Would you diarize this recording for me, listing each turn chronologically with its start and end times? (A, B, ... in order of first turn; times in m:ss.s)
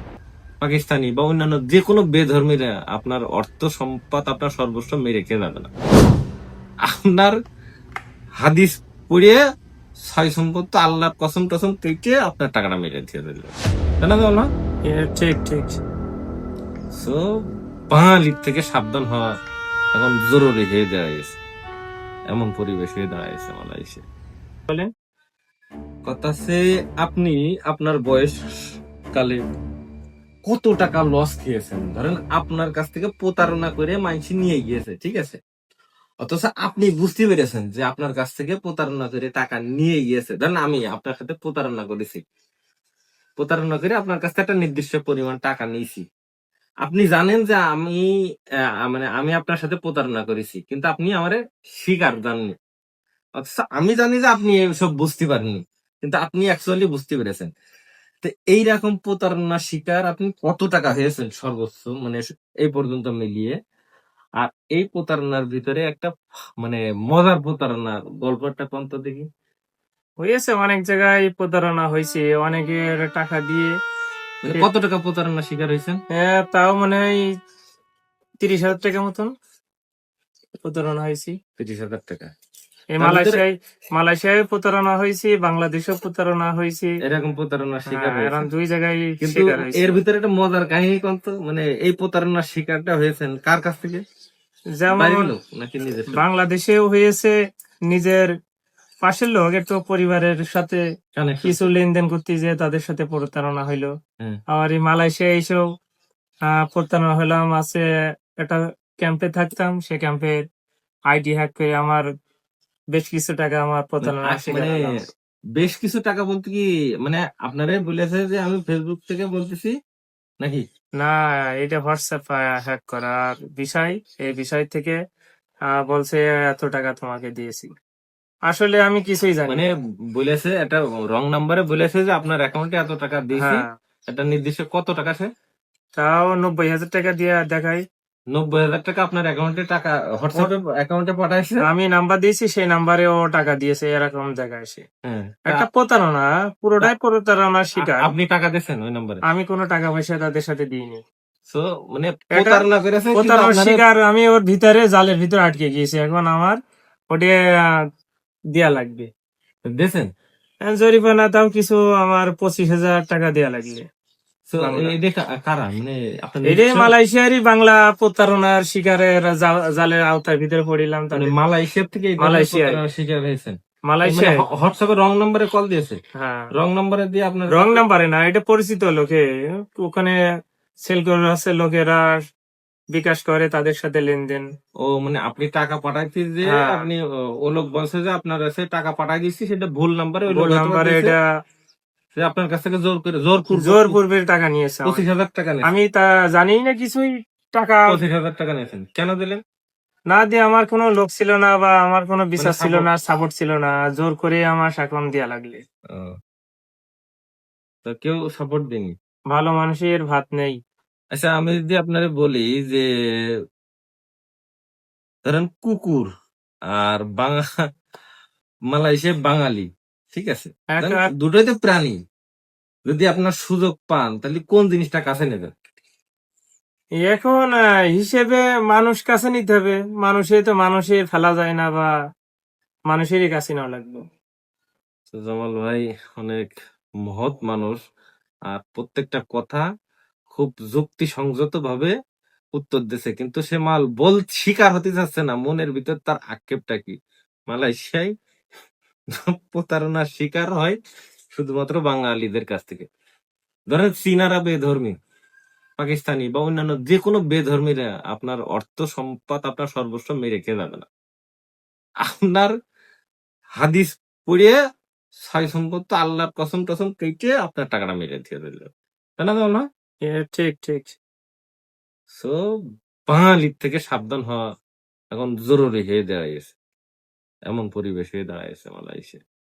0:00.6-0:05.7 A
0:06.8-0:07.4 A
0:08.4-0:09.4 A
0:10.0-0:14.5 A
0:14.9-0:15.8 B
0:16.9-0:19.3 A
0:19.9-0:21.3 A
0:22.3-0:24.0 A
0:26.0-0:28.4 A
0:29.1-0:29.4 A
0:30.4-0:35.4 A
0:36.2-0:42.2 A
0:43.4-0:46.0 A
0:46.8-0:48.1 A
0:48.8-0:52.5 A
0:53.4-0:57.5 A
0:58.2-1:03.6 A
1:04.4-1:06.1 A
1:06.6-1:09.3 A
1:10.2-1:13.7 B
1:14.4-1:16.0 A
1:16.1-1:17.2 B
1:18.4-1:19.3 B
1:20.6-1:21.4 B
1:21.6-1:22.3 A
1:23.0-1:27.0 B
1:23.0-1:23.4 A
1:27.0-1:28.4 A
1:27.9-1:30.0 B
1:29.2-1:34.0 A
1:34.8-1:35.3 B
1:34.9-1:36.2 A
1:36.1-1:37.3 B
1:37.9-1:38.3 B
1:39.0-1:40.8 B
1:41.2-1:41.6 A
1:41.4-1:43.9 B
1:44.5-1:45.6 B
1:46.5-1:47.8 B
1:48.4-1:50.4 B
1:51.1-1:52.1 B
1:52.9-1:54.9 B
1:54.0-1:54.9 A
1:55.6-1:59.7 A
2:01.0-2:05.0 B
2:05.7-2:07.7 B
2:08.5-2:09.6 B
2:09.5-2:15.3 A
2:13.4-2:13.7 B
2:16.0-2:17.8 B
2:18.3-2:21.6 A
2:21.6-2:24.8 B
2:25.0-2:25.6 A
2:25.5-2:28.1 B
2:27.8-2:29.2 A
2:29.2-2:31.0 B
2:31.5-2:33.8 A
2:32.3-2:32.6 B
2:33.2-2:36.6 B
2:37.1-2:37.8 B
2:38.5-2:39.1 B
2:39.7-2:40.1 A
2:40.6-2:43.8 B
2:44.5-2:46.9 A
2:44.6-2:44.9 B
2:46.5-2:51.3 B
2:51.1-2:56.0 A
2:52.2-2:52.8 B
2:53.9-2:54.4 B
2:56.1-2:56.5 B
2:56.5-2:57.8 A
2:57.5-3:00.2 B
3:00.8-3:02.2 B
3:02.9-3:04.4 B
3:04.8-3:11.2 A
3:06.4-3:06.9 B
3:10.3-3:11.2 B
3:12.2-3:14.0 A
3:13.5-3:15.0 B
3:14.8-3:15.7 A
3:15.6-3:18.0 B
3:17.9-3:19.4 A
3:20.1-3:25.6 B
3:22.4-3:22.8 A
3:27.8-3:28.9 A
3:29.3-3:30.6 B
3:31.1-3:32.9 A
3:35.2-3:36.1 A
3:36.7-3:37.4 A
3:38.7-3:42.0 A
3:40.7-3:41.0 B
3:42.9-3:45.5 A
3:47.0-3:51.9 B
3:52.9-3:54.0 B
3:55.1-3:56.5 A
3:57.0-3:57.8 A
3:58.5-3:59.6 A
4:00.3-4:01.9 A
4:02.5-4:07.0 A
4:07.5-4:08.1 A
4:09.1-4:10.8 A
4:11.4-4:12.8 A
4:13.7-4:15.0 A
4:15.8-4:20.8 A
4:22.0-4:22.5 A
4:23.6-4:24.6 A
4:25.2-4:28.7 A
4:29.2-4:29.7 A
4:30.0-4:31.0 B
4:32.1-4:32.4 A
4:33.1-4:34.4 A
4:35.1-4:36.5 A
4:37.5-4:39.2 A